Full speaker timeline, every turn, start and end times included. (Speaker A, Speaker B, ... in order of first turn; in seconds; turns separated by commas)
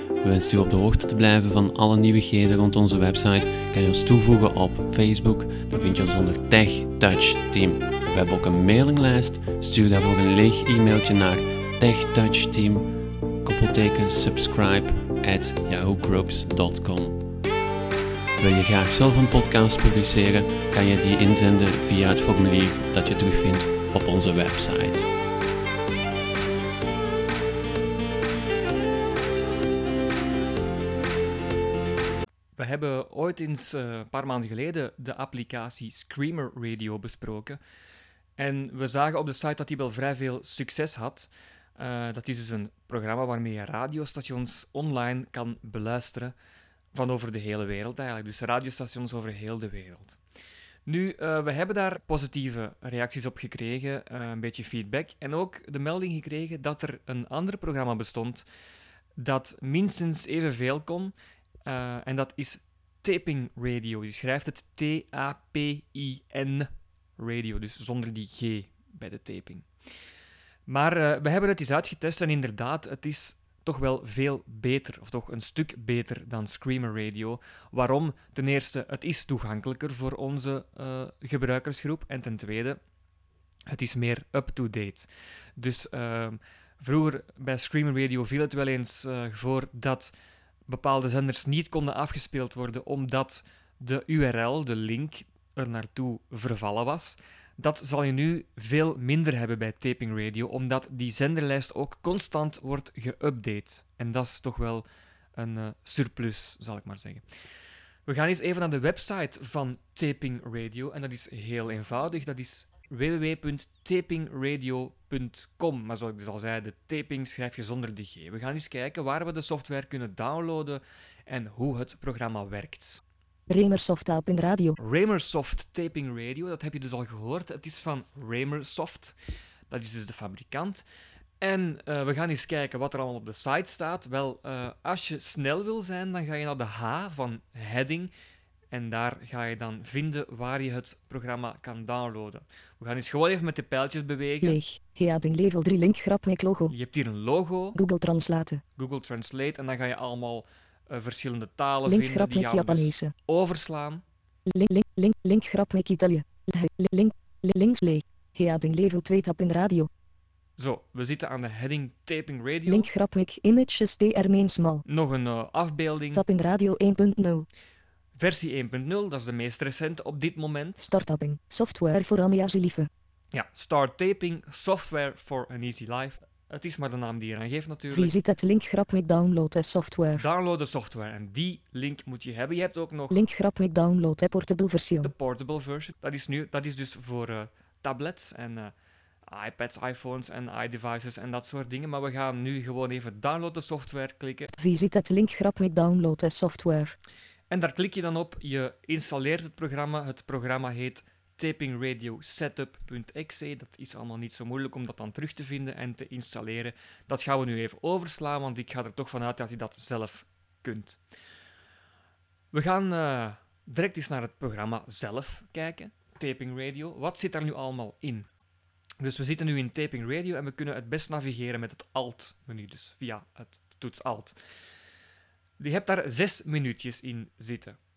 Speaker A: 0.2-17.2, Speaker A: 18.4-25.1, Speaker B: 32.6-37.6, Speaker B: 38.4-46.4, Speaker B: 46.9-50.2, Speaker B: 50.9-58.5, Speaker B: 59.2-61.1, Speaker B: 61.7-69.7, Speaker B: 70.7-82.8, Speaker B: 83.7-90.1, Speaker B: 90.7-107.2, Speaker B: 108.1-123.0, Speaker C: 123.5-124.8, Speaker B: 124.8-129.2, Speaker B: 129.7-130.8, Speaker B: 131.4-138.1, Speaker B: 138.7-144.6, Speaker C: 144.4-146.7, Speaker B: 146.7-147.8, Speaker C: 147.8-148.6, Speaker B: 148.8-154.0, Speaker C: 151.9-153.1, Speaker C: 154.5-159.9, Speaker B: 160.6-162.9, Speaker C: 162.7-164.8, Speaker B: 164.8-166.2, Speaker C: 166.1-167.5, Speaker B: 168.2-170.8, Speaker C: 170.8-172.9, Speaker B: 173.3-178.2, Speaker C: 177.9-180.2, Speaker B: 180.1-183.3, Speaker C: 183.1-185.1, Speaker B: 185.0-188.7, Speaker B: 189.3-194.5, Speaker C: 194.5-196.9, Speaker B: 197.5-211.0, Speaker B: 212.5-218.3, Speaker B: 219.0-224.4, Speaker B: 225.6-227.8